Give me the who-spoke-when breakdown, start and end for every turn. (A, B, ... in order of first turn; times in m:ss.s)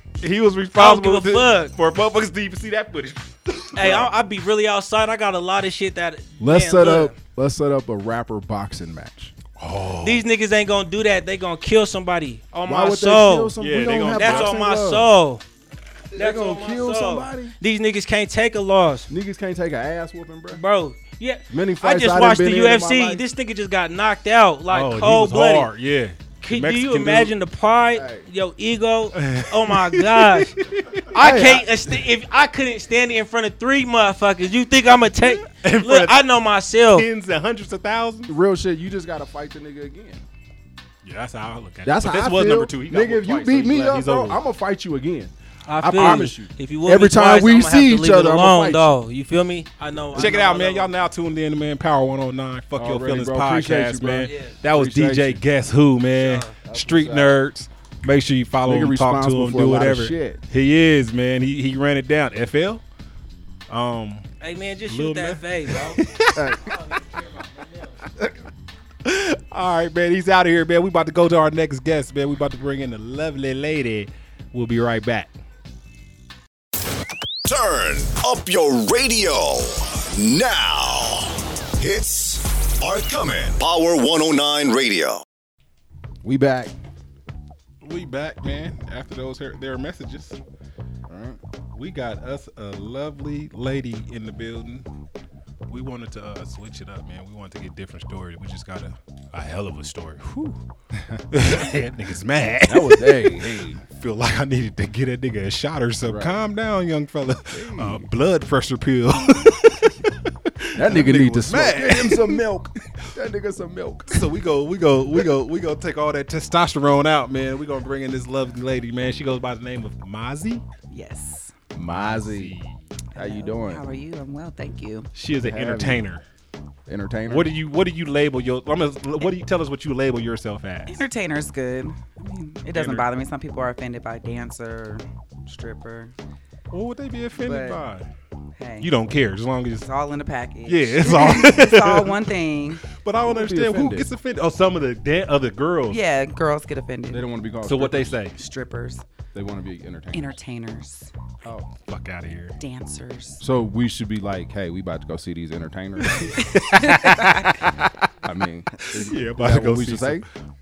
0:00.2-0:04.1 A
0:00.8-0:01.7 B
0:03.7-0:07.1 B
0:06.4-0:09.3 C
0:09.6-0:10.2 A
0:10.0-0:13.5 B
0:12.7-0:15.1 C
0:13.6-0:14.5 A
0:14.1-0:15.4 B
0:16.1-0:17.6 C
0:16.2-0:19.1 B
0:19.1-0:20.6 C
0:20.5-0:25.7 B
0:21.5-0:23.2 C
0:24.7-0:27.3 A
0:26.4-0:30.5 B
0:27.9-0:28.3 C
0:29.2-0:31.1 A
0:31.1-0:37.1 B
0:31.2-0:31.7 C
0:35.2-0:36.2 A
0:36.9-0:38.3 A
0:38.3-0:40.2 C
0:41.0-0:44.4 A
0:41.8-0:49.0 C
0:45.7-0:50.9 B
0:45.9-0:46.3 A
0:50.1-0:50.4 C
0:50.2-1:02.8 A
0:52.8-0:55.4 C
0:54.3-0:54.6 B
0:56.2-0:56.6 B
0:56.6-0:57.4 C
0:58.6-1:00.4 C
1:03.7-1:04.3 A
1:04.4-1:06.0 B
1:04.9-1:06.8 A
1:06.3-1:06.7 C
1:09.0-1:15.3 A
1:17.4-1:25.2 D
1:26.2-1:26.7 C
1:27.8-1:30.4 A
1:31.1-1:31.4 C
1:31.7-1:34.9 A
1:35.7-1:40.6 A
1:41.3-1:52.4 A
1:42.6-1:43.8 C
1:46.0-1:46.4 C
1:47.5-1:48.1 C
1:50.8-1:54.3 C
1:54.1-2:00.6 A
2:00.9-2:01.5 E
2:01.7-2:02.6 C
2:01.9-2:02.8 A
2:03.1-2:05.1 E
2:03.2-2:03.9 C
2:05.2-2:06.2 A
2:05.4-2:06.1 C
2:06.9-2:07.5 C
2:07.3-2:11.0 A
2:10.9-2:16.1 E
2:12.7-2:13.1 A
2:16.7-2:18.1 A
2:17.4-2:17.8 E
2:18.6-2:18.9 E
2:18.8-2:19.9 A
2:19.8-2:22.8 E
2:20.7-2:22.3 A
2:22.9-2:26.0 A
2:23.2-2:24.1 C
2:25.9-2:27.3 E
2:27.1-2:28.2 C
2:27.6-2:28.4 A
2:28.3-2:29.1 E
2:29.3-2:30.4 C
2:30.1-2:31.1 E
2:31.7-2:32.6 A
2:32.6-2:33.4 E
2:33.4-2:36.4 C
2:36.0-2:38.1 A
2:36.5-2:37.6 E
2:38.2-2:40.3 C
2:38.8-2:40.3 A